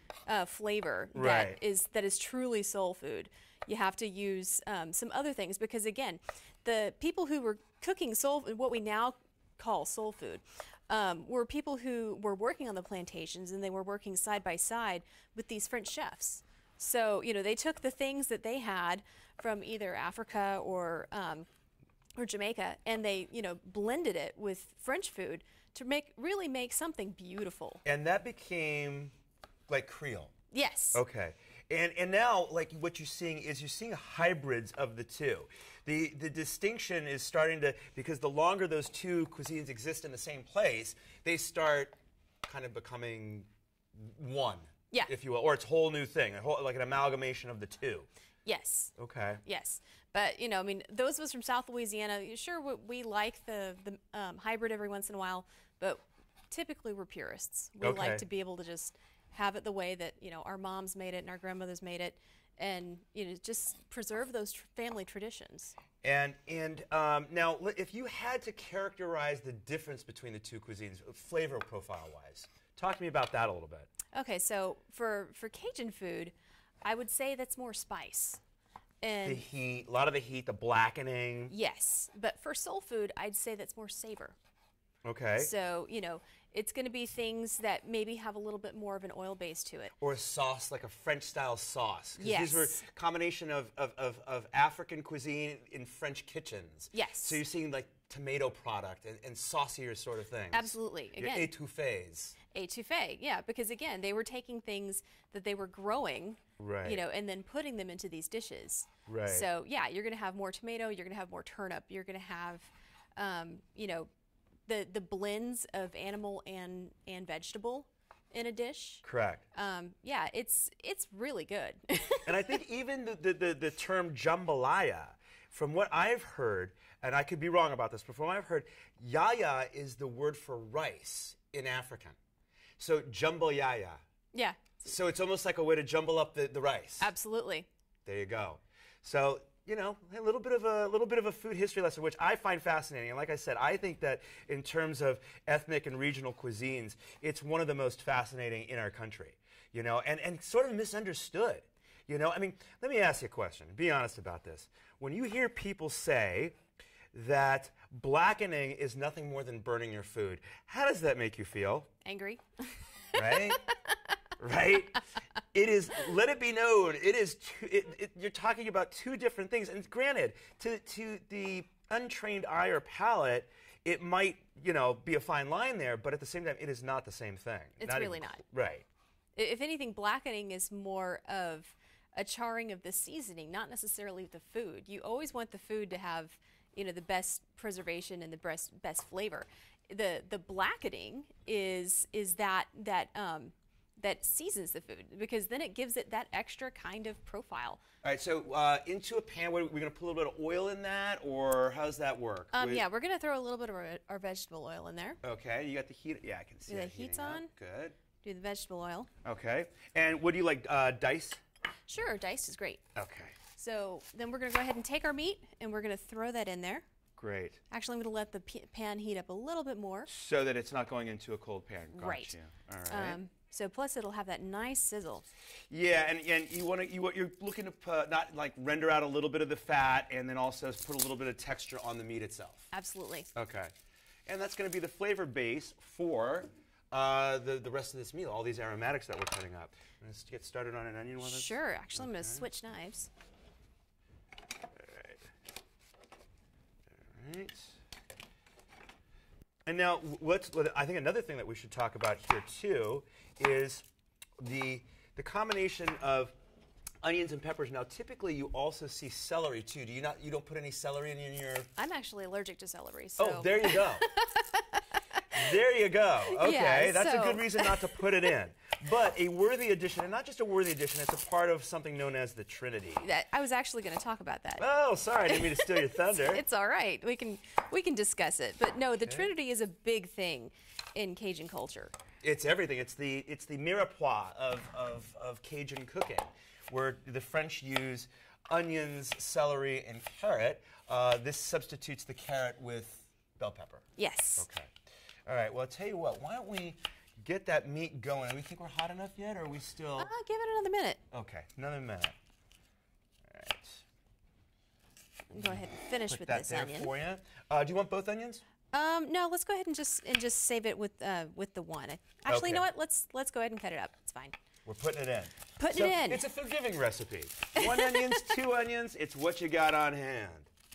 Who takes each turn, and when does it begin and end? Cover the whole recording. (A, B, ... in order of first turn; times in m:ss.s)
0:00.3-0:21.5 A
0:01.1-0:01.6 B
0:22.2-0:27.8 A
0:27.8-0:29.1 B
0:29.7-0:30.3 B
0:30.5-0:31.0 A
0:30.9-0:48.1 B
0:48.4-0:48.9 A
0:49.0-0:49.4 B
0:49.4-1:05.8 A
0:57.8-0:58.2 B
1:06.0-1:13.9 B
1:14.1-1:18.4 A
1:19.0-1:19.4 A
1:19.2-1:21.5 B
1:21.5-1:24.4 A
1:25.0-1:25.5 B
1:25.4-1:29.9 A
1:30.0-1:42.4 B
1:32.2-1:32.8 A
1:36.9-1:37.4 A
1:40.5-1:41.5 A
1:42.5-1:54.1 A
1:46.6-1:47.0 B
1:49.0-1:49.5 B
1:54.7-1:59.0 A
1:59.0-1:59.4 B
1:59.5-2:02.5 A
2:02.2-2:12.2 B
2:12.8-2:14.0 B
2:14.3-2:14.9 A
2:14.8-2:17.1 B
2:17.0-2:17.7 A
2:18.0-2:36.6 B
2:37.1-2:41.9 B
2:42.0-2:44.0 A
2:43.1-2:43.6 B
2:44.4-2:45.0 B
2:45.5-2:58.8 B
2:57.8-2:58.4 A
2:59.4-3:17.8 A
3:18.0-3:22.8 B
3:22.5-3:25.2 A
3:25.2-3:28.0 B
3:26.7-3:27.5 A
3:28.2-3:29.1 A
3:29.2-3:31.4 B
3:31.9-3:32.8 A
3:32.9-3:33.4 B
3:33.6-3:36.8 A
3:37.2-3:37.6 B
3:37.7-3:40.1 A
3:40.1-3:43.2 B
3:41.9-3:42.3 A
3:42.9-3:45.2 A
3:45.7-3:52.7 B
3:52.7-3:53.3 A
3:53.3-3:53.7 B
3:54.3-4:02.4 B
4:01.2-4:03.1 A
4:04.8-4:05.2 B
4:07.1-4:07.8 B
4:09.6-4:13.8 B
4:14.4-4:16.3 B
4:17.0-4:21.7 B
4:21.8-4:25.6 A
4:23.2-4:24.1 B
4:25.3-4:33.1 B
4:26.3-4:27.8 A
4:33.0-4:34.6 A
4:34.6-4:36.4 B
4:35.2-4:41.9 A
4:42.2-4:53.8 B
4:54.0-4:54.4 A
4:54.4-4:54.7 B
4:55.2-5:00.1 B
5:00.0-5:01.0 A
5:01.1-5:02.2 B
5:03.3-5:03.8 B
5:05.3-5:06.9 A
5:05.4-5:08.4 B
5:08.7-5:14.4 A
5:12.2-5:12.6 B
5:14.6-5:20.5 B
5:15.6-5:16.2 A
5:17.6-5:18.4 A